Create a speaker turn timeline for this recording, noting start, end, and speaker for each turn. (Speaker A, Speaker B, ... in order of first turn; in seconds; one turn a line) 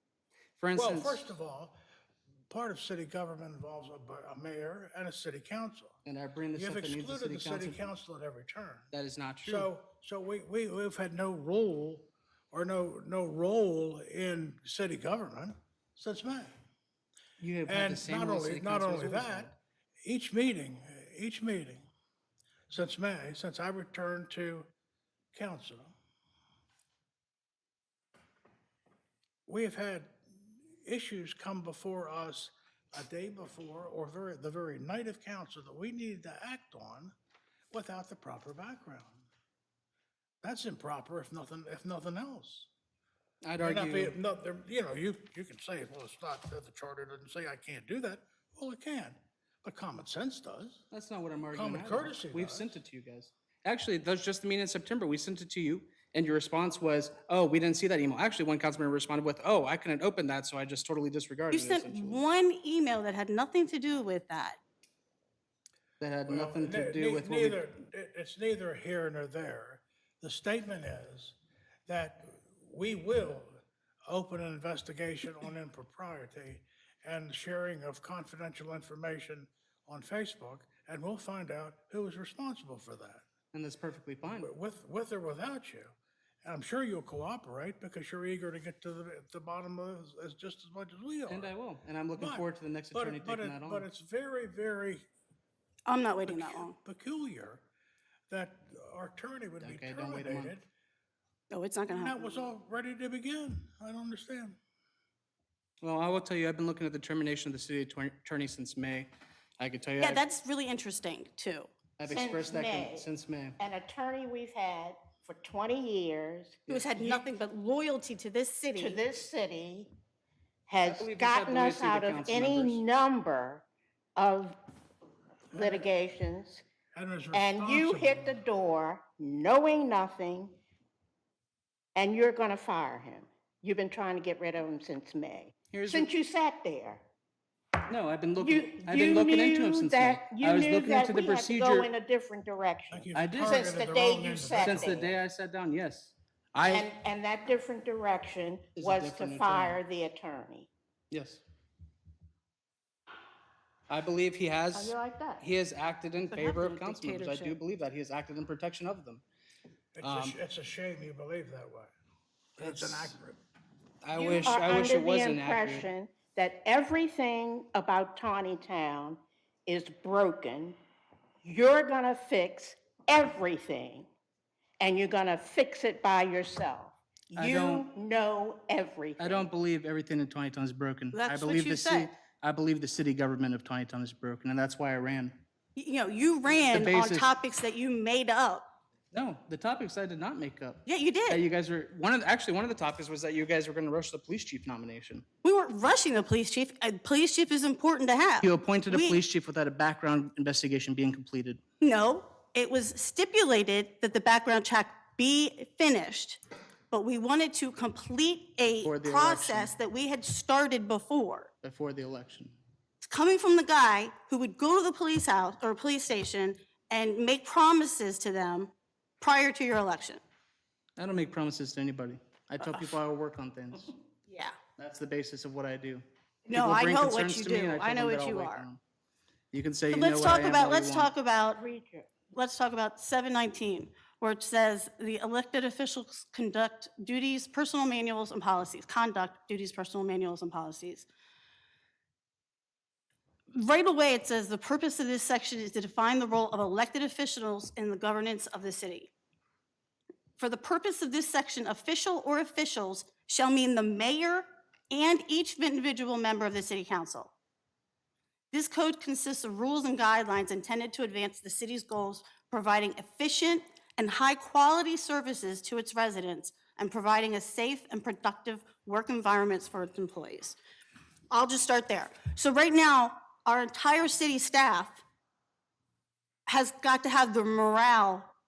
Speaker A: 0.6-1.3
Speaker B: 0.8-1.8
Speaker B: 2.5-6.0
Speaker A: 6.0-7.8
Speaker B: 6.5-8.9
Speaker A: 8.9-9.7
Speaker B: 9.4-16.5
Speaker A: 17.4-19.6
Speaker B: 17.7-21.9
Speaker B: 22.7-24.7
Speaker B: 25.3-25.9
Speaker B: 29.5-30.2
Speaker B: 30.8-37.1
Speaker B: 37.7-39.2
Speaker B: 40.4-42.7
Speaker A: 43.4-44.2
Speaker B: 43.6-50.8
Speaker A: 50.9-62.2
Speaker B: 51.5-52.8
Speaker C: 61.5-64.6
Speaker A: 66.0-67.6
Speaker B: 66.3-83.2
Speaker A: 83.5-84.5
Speaker B: 84.3-91.5
Speaker A: 91.3-93.9
Speaker B: 92.2-95.0
Speaker C: 95.9-96.7
Speaker B: 96.2-97.7
Speaker B: 98.3-100.7
Speaker A: 99.6-100.5
Speaker C: 101.5-102.2
Speaker B: 101.8-104.6
Speaker A: 105.8-110.2
Speaker C: 110.0-111.7
Speaker A: 112.0-113.6
Speaker D: 112.1-116.6
Speaker A: 116.7-117.3
Speaker C: 116.7-119.0
Speaker D: 118.8-119.9
Speaker D: 120.7-123.7
Speaker A: 120.8-122.8
Speaker D: 124.2-124.6
Speaker B: 125.5-125.9
Speaker D: 125.5-126.7
Speaker B: 127.0-128.4
Speaker D: 127.3-130.6
Speaker D: 131.9-137.0
Speaker A: 135.7-136.1
Speaker A: 137.9-141.9
Speaker D: 138.4-145.1
Speaker B: 142.9-145.1
Speaker A: 143.1-143.7
Speaker A: 144.5-146.9
Speaker D: 146.7-150.7
Speaker A: 148.8-149.8
Speaker A: 151.1-151.4
Speaker A: 153.9-159.2
Speaker C: 154.7-155.4
Speaker C: 156.3-157.6
Speaker B: 160.0-161.9
Speaker A: 160.0-160.4
Speaker B: 162.6-163.4
Speaker A: 162.6-163.2
Speaker A: 164.0-165.9
Speaker D: 164.2-170.8
Speaker D: 171.4-174.1
Speaker D: 174.8-179.5
Speaker A: 177.3-177.9
Speaker A: 179.2-185.4
Speaker C: 181.1-182.1
Speaker C: 185.8-188.7
Speaker A: 186.7-187.3
Speaker A: 189.1-195.2
Speaker C: 190.9-191.4
Speaker C: 195.4-199.2
Speaker A: 198.4-201.6
Speaker C: 201.8-211.5
Speaker A: 208.8-209.7
Speaker A: 211.6-212.6
Speaker C: 213.0-220.2
Speaker A: 221.0-223.9
Speaker C: 222.6-223.0
Speaker C: 224.3-224.6
Speaker A: 224.8-228.8
Speaker C: 226.5-228.7
Speaker A: 229.5-231.1
Speaker C: 229.9-231.6
Speaker D: 231.6-232.1
Speaker C: 232.3-241.1
Speaker C: 243.5-249.1
Speaker C: 250.4-257.3
Speaker C: 258.5-270.6
Speaker C: 271.3-275.0
Speaker C: 276.5-278.3